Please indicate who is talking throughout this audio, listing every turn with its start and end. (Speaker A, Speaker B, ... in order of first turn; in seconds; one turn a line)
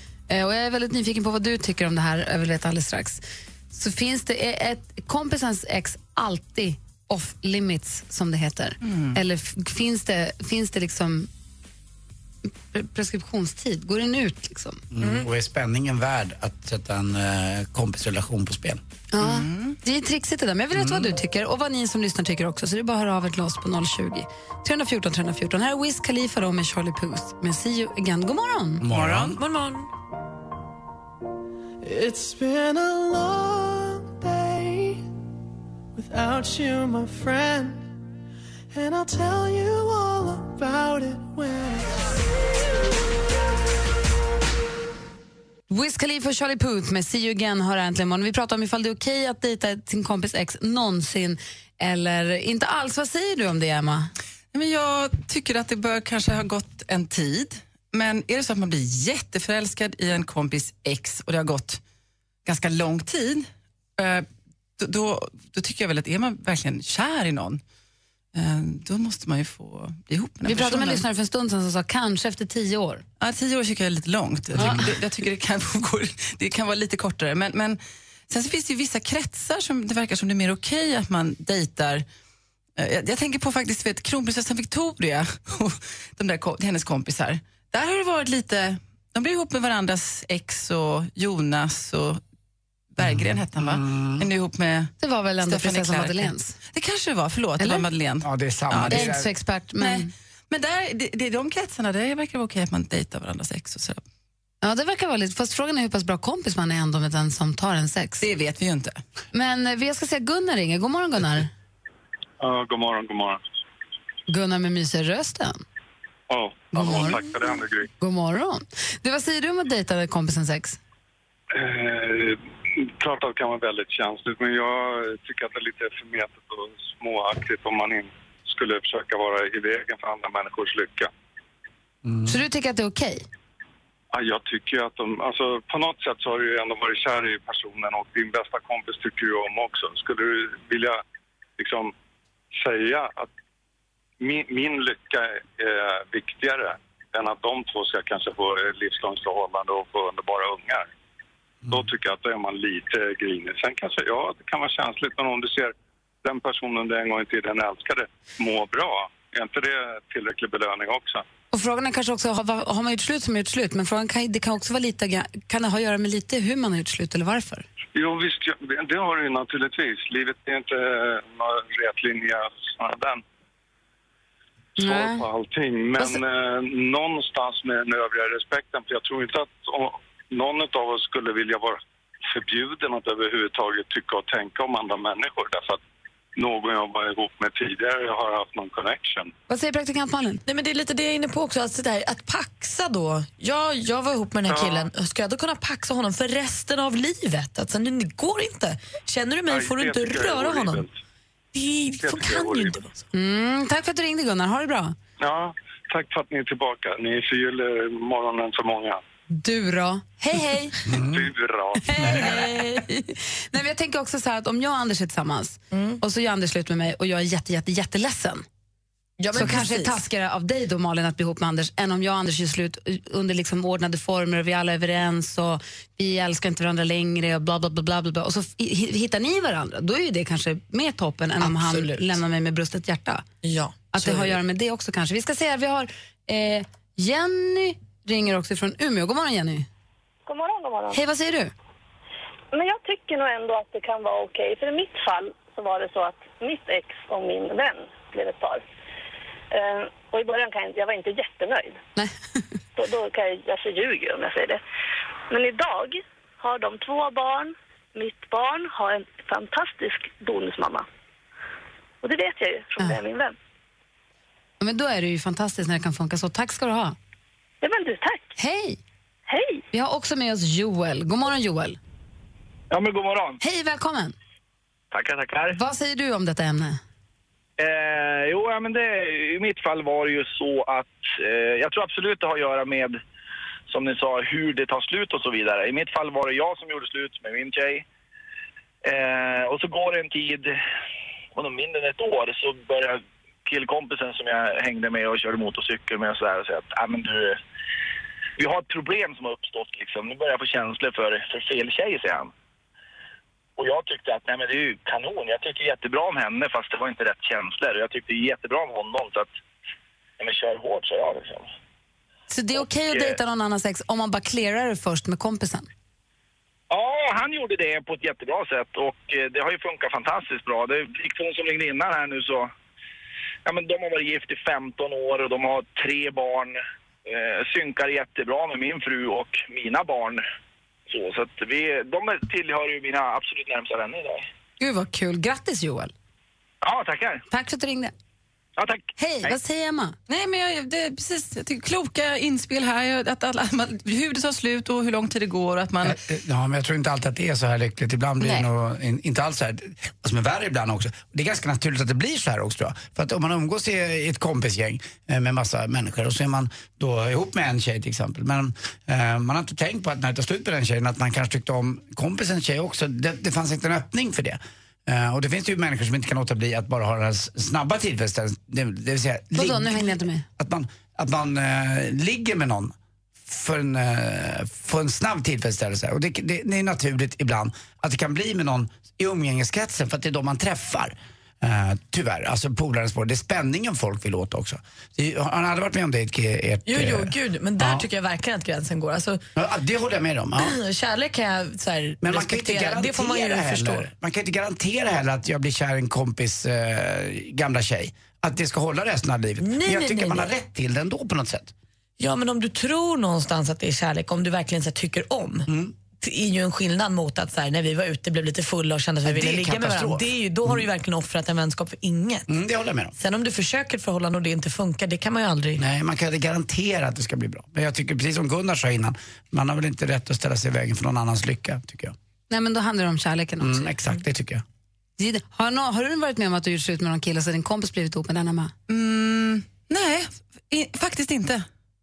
Speaker A: 0.3-11.3
Speaker B: 8.8-9.2
Speaker A: 12.7-14.8
Speaker C: 14.9-18.8
Speaker D: 15.0-15.3
Speaker A: 19.1-28.9
Speaker B: 19.2-19.8
Speaker C: 20.7-21.1
Speaker C: 28.8-29.4
Speaker B: 28.9-29.4
Speaker D: 29.3-29.9
Speaker E: 31.8-35.1
Speaker E: 35.9-37.9
Speaker E: 38.7-42.0
Speaker A: 45.7-54.1
Speaker B: 54.5-61.8
Speaker B: 62.5-64.3
Speaker B: 64.8-67.6
Speaker B: 68.3-71.0
Speaker A: 70.5-73.0
Speaker B: 73.2-82.0
Speaker C: 74.6-74.8
Speaker A: 74.6-74.9
Speaker B: 82.8-92.2
Speaker B: 92.9-99.2
Speaker C: 93.0-94.3
Speaker A: 95.0-96.6
Speaker A: 97.6-97.9
Speaker C: 98.2-99.3
Speaker A: 98.9-100.1
Speaker B: 99.8-104.0
Speaker A: 104.6-108.2
Speaker B: 108.2-109.0
Speaker A: 109.3-111.5
Speaker F: 112.4-113.4
Speaker A: 114.3-115.6
Speaker F: 116.3-117.9
Speaker A: 116.7-117.3
Speaker A: 118.0-120.8
Speaker F: 121.5-122.4
Speaker F: 123.0-131.1
Speaker C: 132.1-132.4
Speaker A: 132.3-133.2
Speaker F: 134.1-141.0
Speaker F: 141.6-141.9
Speaker F: 142.5-143.3
Speaker F: 144.2-150.9
Speaker F: 151.7-161.2
Speaker A: 161.5-167.6
Speaker F: 167.9-173.2
Speaker A: 174.8-175.2
Speaker F: 174.8-185.8
Speaker F: 186.4-189.3
Speaker A: 189.5-190.4
Speaker D: 190.5-200.9
Speaker F: 194.5-194.9
Speaker F: 199.5-201.0
Speaker D: 201.5-203.0
Speaker F: 202.0-202.9
Speaker A: 203.1-205.0
Speaker F: 205.2-209.0
Speaker A: 209.3-210.8
Speaker C: 210.9-211.3
Speaker F: 210.9-212.5
Speaker A: 211.8-218.4
Speaker D: 215.7-216.0
Speaker D: 219.2-220.0
Speaker A: 219.3-233.2
Speaker D: 231.4-232.2
Speaker D: 233.4-234.4
Speaker A: 233.9-239.7
Speaker G: 240.3-241.0
Speaker A: 240.9-241.5
Speaker G: 242.5-248.6
Speaker G: 249.5-251.8
Speaker A: 252.0-252.4
Speaker G: 252.8-254.6
Speaker G: 255.3-260.9
Speaker G: 262.0-263.3
Speaker A: 264.6-267.0
Speaker G: 267.6-268.3
Speaker A: 268.4-268.8
Speaker G: 269.3-269.6
Speaker A: 269.7-271.8
Speaker H: 272.7-273.4
Speaker A: 273.4-274.1
Speaker H: 274.9-275.6
Speaker A: 275.5-276.8
Speaker H: 277.6-283.0
Speaker H: 283.7-287.9
Speaker H: 288.8-290.6
Speaker H: 291.4-297.4
Speaker H: 298.4-302.3
Speaker H: 303.6-309.3
Speaker H: 310.2-311.5
Speaker A: 312.3-315.7
Speaker H: 312.6-313.1
Speaker H: 316.7-322.5
Speaker H: 323.5-330.2
Speaker H: 330.9-334.3
Speaker A: 334.6-335.9
Speaker H: 336.6-337.2
Speaker A: 337.3-337.9
Speaker H: 338.6-339.4
Speaker A: 339.0-340.0
Speaker B: 340.1-346.0
Speaker C: 345.8-372.8
Speaker A: 369.4-370.2
Speaker C: 373.3-387.9
Speaker D: 386.7-389.2
Speaker C: 389.4-390.6
Speaker D: 390.4-393.9
Speaker C: 392.0-401.5
Speaker D: 399.4-400.3
Speaker D: 402.0-405.5
Speaker C: 405.5-405.8
Speaker D: 406.0-412.3
Speaker C: 409.0-410.7
Speaker C: 412.3-412.9
Speaker D: 413.0-415.6
Speaker C: 415.6-421.9
Speaker A: 422.3-423.7
Speaker C: 423.4-424.4
Speaker A: 425.0-428.5
Speaker B: 428.7-431.4